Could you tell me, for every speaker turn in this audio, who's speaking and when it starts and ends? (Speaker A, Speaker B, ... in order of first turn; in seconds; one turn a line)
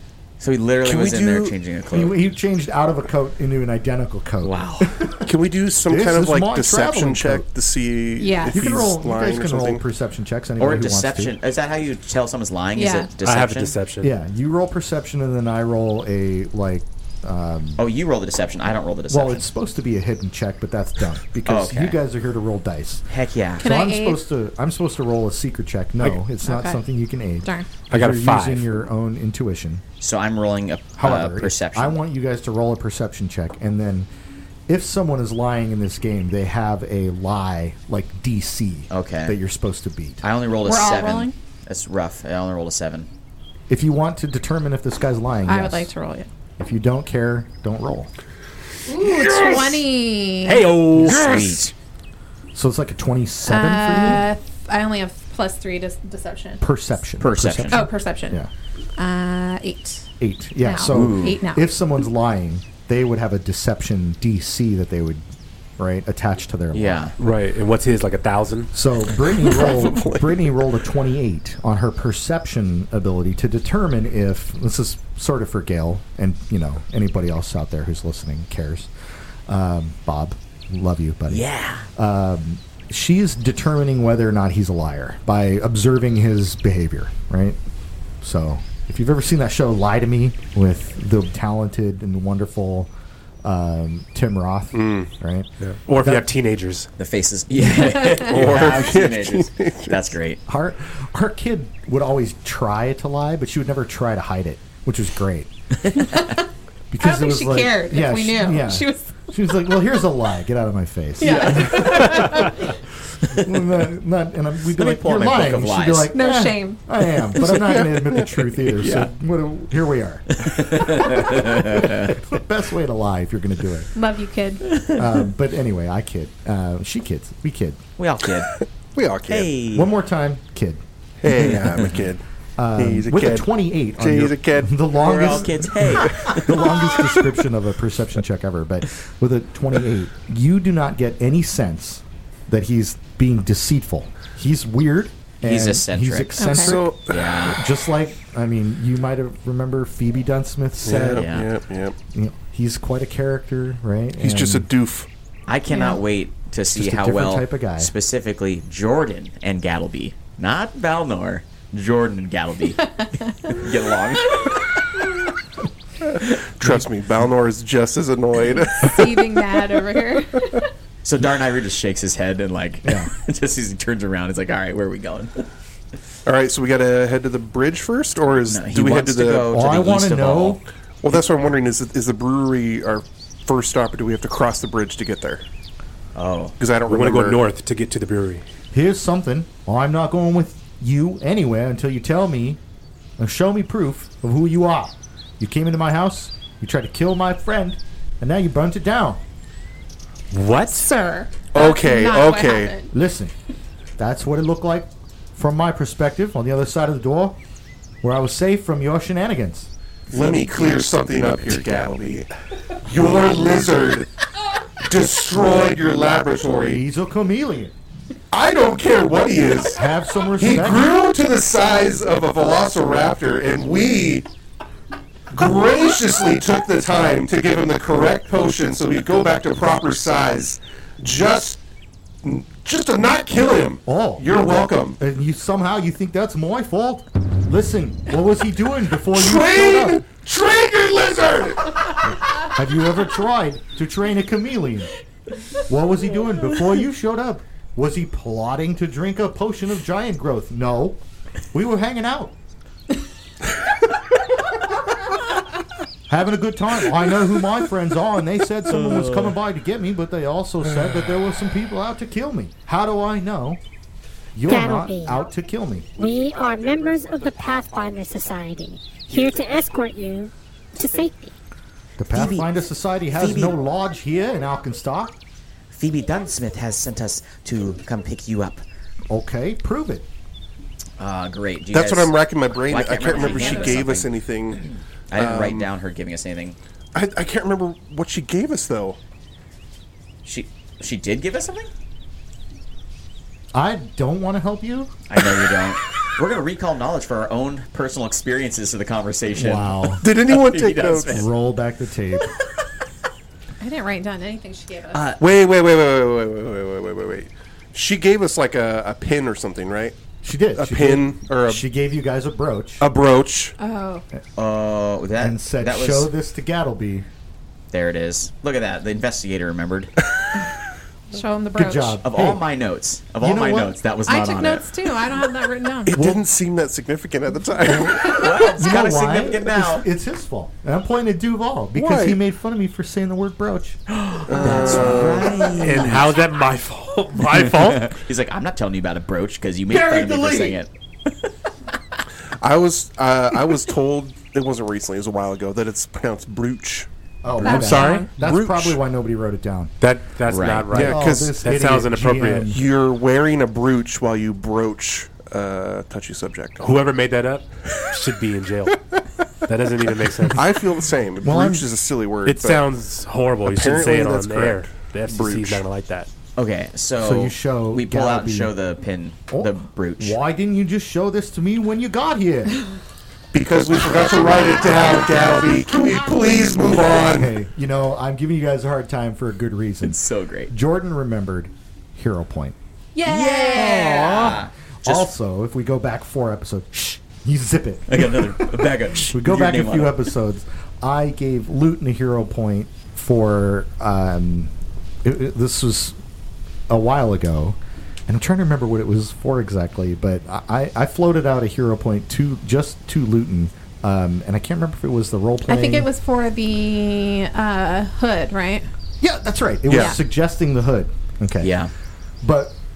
Speaker A: 0.4-2.2
Speaker B: 0.8-1.6
Speaker C: 1.9-5.3
Speaker A: 4.4-5.0
Speaker B: 5.2-9.8
Speaker C: 5.8-7.5
Speaker D: 8.2-8.7
Speaker C: 8.5-11.4
Speaker A: 10.6-13.8
Speaker D: 12.8-13.1
Speaker E: 13.2-14.1
Speaker C: 14.0-17.8
Speaker A: 17.8-19.4
Speaker C: 19.1-23.0
Speaker A: 21.5-22.0
Speaker A: 23.1-23.7
Speaker D: 23.6-24.2
Speaker C: 23.6-29.8
Speaker D: 26.4-26.8
Speaker D: 27.4-27.7
Speaker E: 27.9-28.7
Speaker A: 30.0-32.0
Speaker C: 31.0-34.1
Speaker C: 34.7-40.2
Speaker A: 38.9-39.4
Speaker A: 40.2-43.1
Speaker D: 40.6-41.3
Speaker C: 43.7-45.9
Speaker D: 45.5-46.3
Speaker C: 46.6-48.1
Speaker D: 48.9-50.7
Speaker E: 50.5-51.6
Speaker A: 51.0-51.7
Speaker C: 52.5-54.3
Speaker D: 53.5-56.6
Speaker C: 56.6-58.5
Speaker A: 57.2-57.9
Speaker D: 57.7-58.4
Speaker D: 59.0-60.1
Speaker C: 60.2-65.2
Speaker D: 60.6-61.6
Speaker A: 60.9-61.4
Speaker C: 65.8-67.1
Speaker A: 66.7-67.1
Speaker E: 67.2-68.7
Speaker C: 68.7-78.9
Speaker B: 69.2-70.5
Speaker C: 79.5-87.6
Speaker A: 81.3-81.9
Speaker C: 88.2-92.9
Speaker C: 93.4-96.3
Speaker B: 94.7-95.1
Speaker E: 95.6-96.9
Speaker A: 97.0-100.4
Speaker B: 98.2-100.0
Speaker C: 100.5-105.5
Speaker A: 105.9-106.3
Speaker D: 106.1-106.4
Speaker C: 106.9-112.5
Speaker D: 107.0-109.3
Speaker D: 111.2-112.8
Speaker A: 111.2-111.8
Speaker C: 113.3-123.9
Speaker A: 114.7-116.2
Speaker D: 116.1-116.8
Speaker B: 117.4-118.4
Speaker A: 118.8-119.1
Speaker A: 120.4-122.2
Speaker D: 124.0-124.9
Speaker C: 124.9-127.8
Speaker A: 128.0-128.5
Speaker B: 128.6-129.6
Speaker A: 129.3-129.9
Speaker C: 129.7-130.8
Speaker B: 131.2-132.2
Speaker C: 132.6-151.3
Speaker B: 132.8-134.8
Speaker A: 134.9-137.0
Speaker A: 145.4-147.6
Speaker D: 146.4-146.8
Speaker B: 146.6-147.5
Speaker B: 150.8-151.9
Speaker A: 151.1-151.5
Speaker C: 152.1-154.7
Speaker B: 154.2-155.1
Speaker A: 155.5-164.7
Speaker D: 155.7-156.0
Speaker C: 156.7-157.9
Speaker B: 166.6-169.5
Speaker D: 168.7-170.7
Speaker A: 171.1-175.5
Speaker C: 172.8-173.1
Speaker B: 176.2-179.5
Speaker A: 178.5-180.6
Speaker C: 179.4-180.6
Speaker B: 181.0-185.4
Speaker A: 186.2-186.6
Speaker B: 186.6-187.4
Speaker E: 186.9-188.4
Speaker C: 188.7-192.6
Speaker C: 193.2-199.2
Speaker E: 200.3-200.9
Speaker D: 200.7-202.9
Speaker B: 201.5-202.7
Speaker C: 202.9-203.3
Speaker C: 204.0-207.4
Speaker C: 208.0-209.7
Speaker B: 210.1-212.3
Speaker B: 212.8-214.1
Speaker B: 214.8-216.8
Speaker C: 216.7-217.7
Speaker B: 218.3-219.8
Speaker C: 219.8-220.9
Speaker B: 220.4-224.3
Speaker B: 225.3-231.6
Speaker B: 232.2-235.0
Speaker C: 233.8-234.3
Speaker C: 235.0-240.0
Speaker B: 239.1-242.0
Speaker C: 242.4-244.9
Speaker C: 245.7-251.0
Speaker C: 251.5-252.3
Speaker C: 256.1-263.6
Speaker C: 264.4-265.9
Speaker F: 264.5-265.2
Speaker F: 266.0-271.3
Speaker C: 272.0-275.1
Speaker A: 272.1-272.6
Speaker A: 273.1-273.6
Speaker A: 275.7-278.6
Speaker C: 279.1-280.1
Speaker A: 281.0-286.6
Speaker B: 281.7-285.7
Speaker B: 286.9-289.0
Speaker A: 290.2-291.7
Speaker C: 293.5-294.9
Speaker A: 295.1-301.3
Speaker C: 299.3-300.1
Speaker B: 300.0-301.3
Speaker C: 301.1-302.3
Speaker D: 303.6-305.1
Speaker A: 304.9-305.2
Speaker B: 305.2-309.9
Speaker C: 310.2-312.9
Speaker B: 310.6-311.6
Speaker B: 312.8-313.6
Speaker D: 313.6-314.1
Speaker A: 314.4-316.1
Speaker C: 315.2-317.1
Speaker A: 317.7-319.9
Speaker D: 321.1-322.0
Speaker C: 321.6-322.4
Speaker A: 322.0-324.7
Speaker C: 323.2-323.8
Speaker D: 324.1-326.0
Speaker B: 325.9-328.3
Speaker C: 325.9-326.2
Speaker C: 327.7-333.8
Speaker A: 327.9-329.9
Speaker B: 331.8-332.2
Speaker A: 333.9-336.1
Speaker B: 334.3-335.5
Speaker C: 334.4-335.9
Speaker E: 335.6-338.0
Speaker A: 337.5-341.3
Speaker C: 339.7-340.6
Speaker B: 342.4-346.9
Speaker C: 347.2-349.7
Speaker D: 347.4-348.1
Speaker E: 347.4-348.1
Speaker B: 347.4-348.8
Speaker E: 349.8-352.6
Speaker A: 350.3-350.8
Speaker B: 350.7-351.4
Speaker C: 350.7-352.6
Speaker B: 352.5-356.7
Speaker E: 356.6-358.8
Speaker E: 359.4-360.4
Speaker B: 360.3-362.7
Speaker C: 361.2-361.7
Speaker E: 362.3-366.1
Speaker B: 363.4-365.6
Speaker A: 366.4-370.2
Speaker C: 367.0-368.5
Speaker C: 369.3-372.6
Speaker B: 373.3-377.3
Speaker C: 377.1-382.6
Speaker A: 379.8-380.5
Speaker D: 382.9-384.4
Speaker A: 383.0-385.1
Speaker C: 384.2-394.5
Speaker A: 387.9-390.1
Speaker C: 395.0-396.0
Speaker C: 396.7-405.9
Speaker D: 405.5-408.7
Speaker C: 409.0-411.5
Speaker B: 409.7-409.9
Speaker A: 411.4-411.7
Speaker C: 412.2-412.6